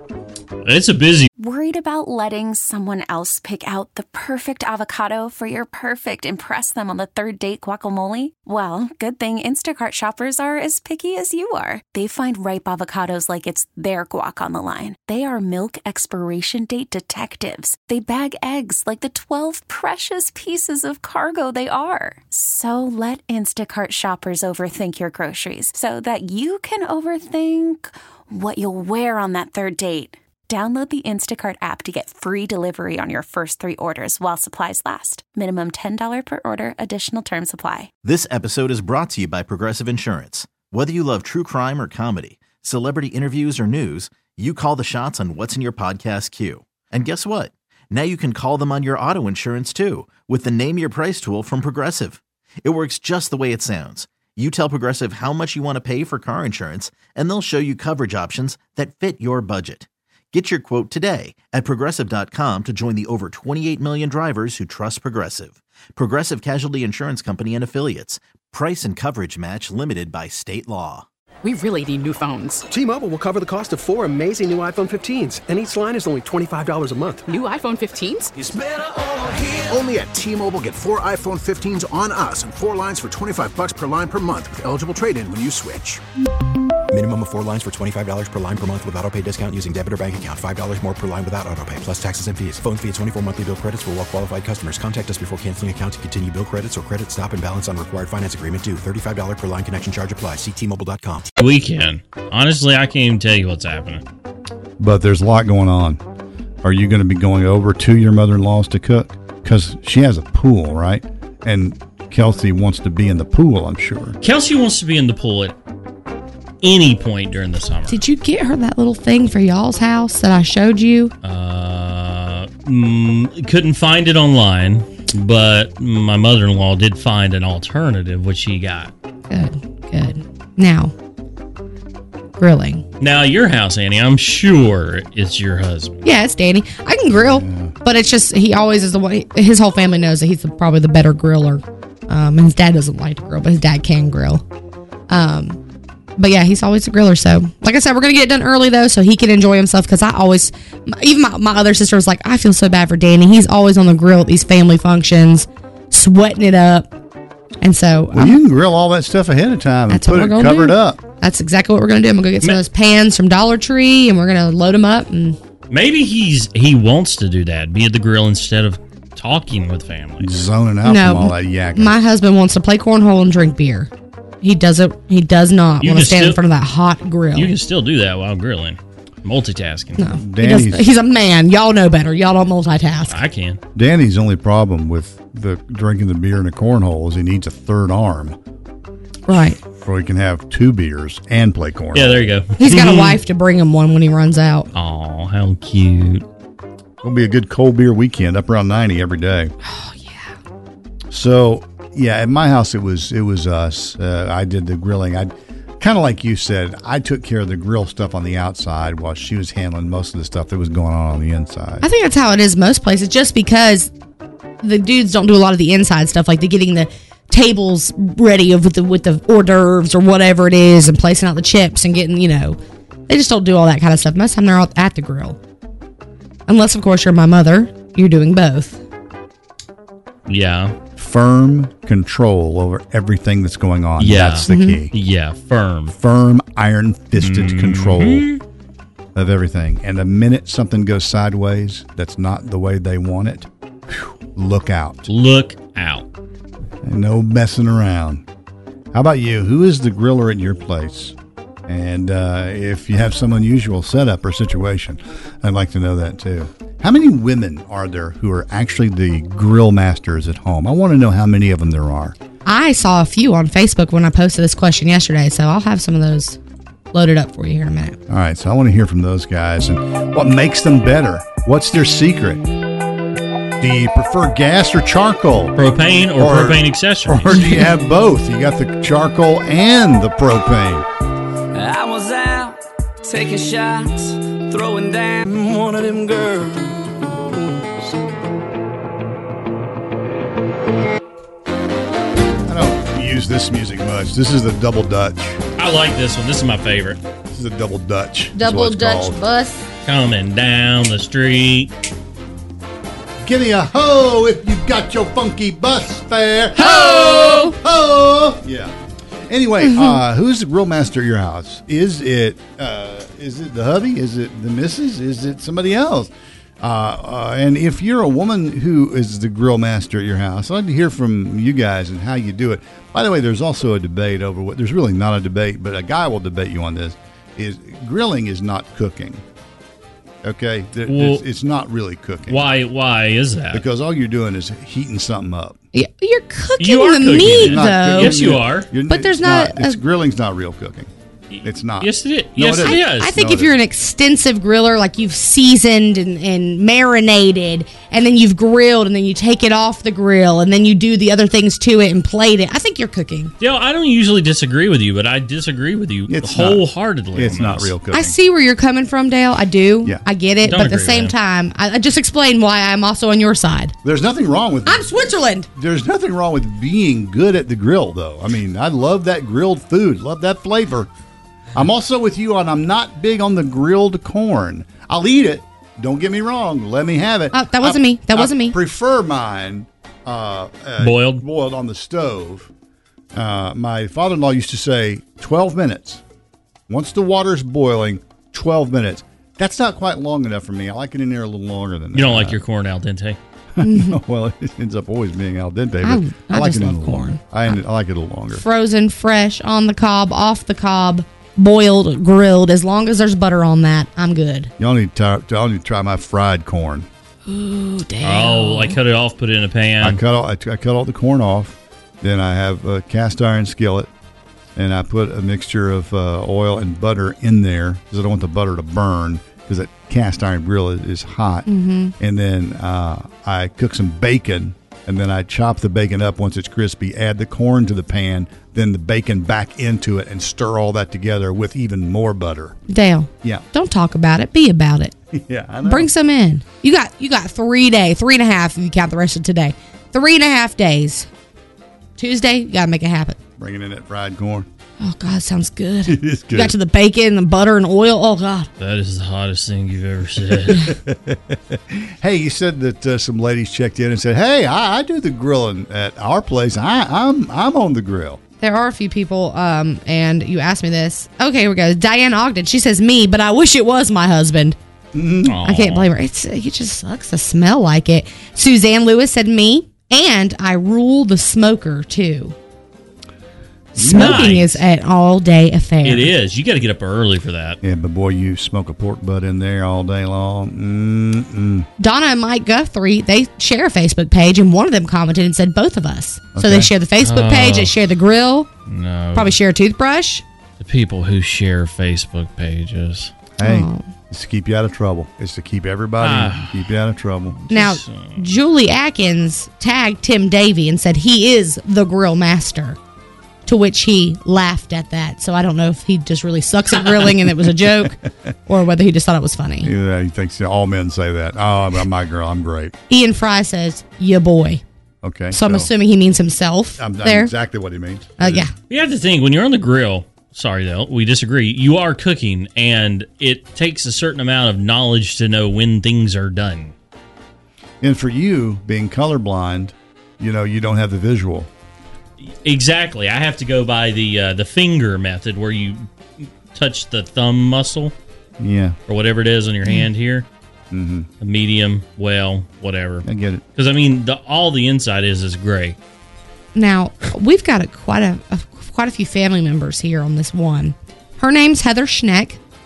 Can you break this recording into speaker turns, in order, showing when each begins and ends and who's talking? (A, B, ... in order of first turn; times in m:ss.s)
0:00.6-0:01.3 A
0:01.4-0:37.9 B
0:38.0-1:11.0 C
1:11.4-1:12.6 D
1:12.7-1:17.3 E
1:17.3-1:18.3 D
1:18.4-1:26.0 F
1:26.9-1:41.3 G
1:41.4-1:44.0 A
1:44.8-1:46.0 H
1:46.6-1:54.2 H
1:54.2-1:55.6 A
1:56.6-1:58.0 A
1:57.9-2:01.1 I
2:01.2-2:08.9 A
2:09.3-2:10.9 I
2:12.4-2:12.8 I
2:13.0-2:16.0 A
2:16.0-2:24.4 I
2:17.1-2:17.8 H
2:25.1-2:25.6 I
2:26.2-2:36.9 I
2:37.6-2:38.4 I
2:38.1-2:41.0 H
2:39.9-2:45.4 I
2:45.7-2:50.4 A
2:50.2-2:52.0 H
2:50.8-2:53.9 I
2:54.4-2:57.5 I
2:55.8-2:56.4 A
2:57.3-3:00.1 A
3:00.0-3:03.2 I
3:00.2-3:00.9 H
3:03.1-3:03.6 A
3:03.8-3:08.4 H
3:09.3-3:09.6 I
3:09.6-3:12.3 H
3:11.9-3:13.2 A
3:12.6-3:14.7 I
3:14.7-3:16.2 A
3:17.0-3:19.5 H
3:19.6-3:20.3 I
3:21.1-3:31.8 H
3:31.8-3:33.9 I
3:34.6-3:45.4 I
3:46.5-3:48.8 I
3:50.3-3:50.8 A
3:51.0-3:54.9 H
3:54.0-3:55.9 A
3:54.5-3:54.8 I
3:55.9-3:58.3 H
3:57.2-3:58.4 A
3:59.2-4:05.1 H
4:05.1-4:06.0 A
4:06.8-4:08.2 H
4:08.9-4:11.2 H
4:11.7-4:22.2 H
4:22.4-4:26.4 I
4:26.9-4:28.0 I
4:28.1-4:32.4 H
4:33.6-4:35.6 H
4:35.6-4:37.3 A
4:36.2-4:40.9 H
4:41.5-4:47.2 J
4:52.5-4:55.4 H
4:55.6-4:57.0 A
4:57.3-4:59.2 H
4:58.4-4:59.7 I
4:59.8-5:01.7 A
5:03.2-5:08.7 H
5:06.6-5:07.6 I
5:09.3-5:29.2 H
5:09.7-5:10.0 I
5:30.2-5:32.4 H
5:30.9-5:31.2 A
5:32.3-5:33.6 A
5:33.5-5:35.6 H
5:35.7-5:38.2 I
5:36.6-5:38.7 A
5:37.2-5:40.9 H
5:38.9-5:39.8 I
5:41.3-5:43.1 A
5:41.4-5:43.6 H
5:42.6-5:53.3 I
5:53.4-5:57.7 A
5:56.1-5:58.2 H
5:57.9-6:03.7 I
6:00.4-6:01.1 A
6:03.8-6:05.0 H
6:04.7-6:05.5 I
6:05.5-6:10.9 H
6:11.6-6:22.5 H
6:17.3-6:18.6 I
6:20.8-6:21.2 A
6:23.1-6:26.0 H
6:26.7-6:32.4 H
6:32.0-6:33.2 A
6:33.6-6:38.4 H
6:33.6-6:34.0 I
6:35.8-6:37.6 I
6:38.3-6:44.5 I
6:44.6-6:46.9 H
6:47.3-6:48.8 I
6:48.0-6:50.0 A
6:49.8-6:53.9 H
6:54.6-7:01.5 H
7:01.5-7:01.9 I
7:02.0-7:12.6 H
7:12.7-7:14.9 I
7:15.1-7:15.9 H
7:15.6-7:21.1 I
7:22.0-7:23.2 I
7:23.4-7:24.5 H
7:24.8-7:28.5 I
7:25.9-7:26.6 H
7:28.6-7:30.8 A
7:30.5-7:38.2 H
7:38.4-7:44.6 I
7:44.9-7:45.4 H
7:45.2-7:45.9 A
7:45.4-7:52.4 I
7:53.8-7:54.6 H
7:53.8-7:56.1 I
7:53.8-7:54.5 A
7:55.8-7:57.6 A
7:57.6-8:01.7 H
8:01.8-8:08.5 I
8:06.4-8:06.7 H
8:07.0-8:07.7 A
8:08.7-8:09.4 A
8:09.2-8:10.2 I
8:10.6-8:13.1 A
8:13.4-8:17.4 H
8:13.4-8:13.9 I
8:16.0-8:16.6 A
8:17.4-8:18.3 A
8:17.5-8:22.8 I
8:23.5-8:29.7 I
8:29.6-8:32.8 H
8:32.9-8:34.6 I
8:35.0-8:35.7 H
8:35.3-8:37.3 I
8:36.8-8:38.4 H
8:38.2-8:38.5 I
8:38.7-8:46.7 A
8:47.8-8:51.5 H
8:52.2-8:57.9 A
8:58.4-8:58.8 H
8:58.9-9:00.3 A
9:00.7-9:01.1 H
9:01.2-9:05.8 A
9:03.0-9:03.4 H
9:06.6-9:12.4 I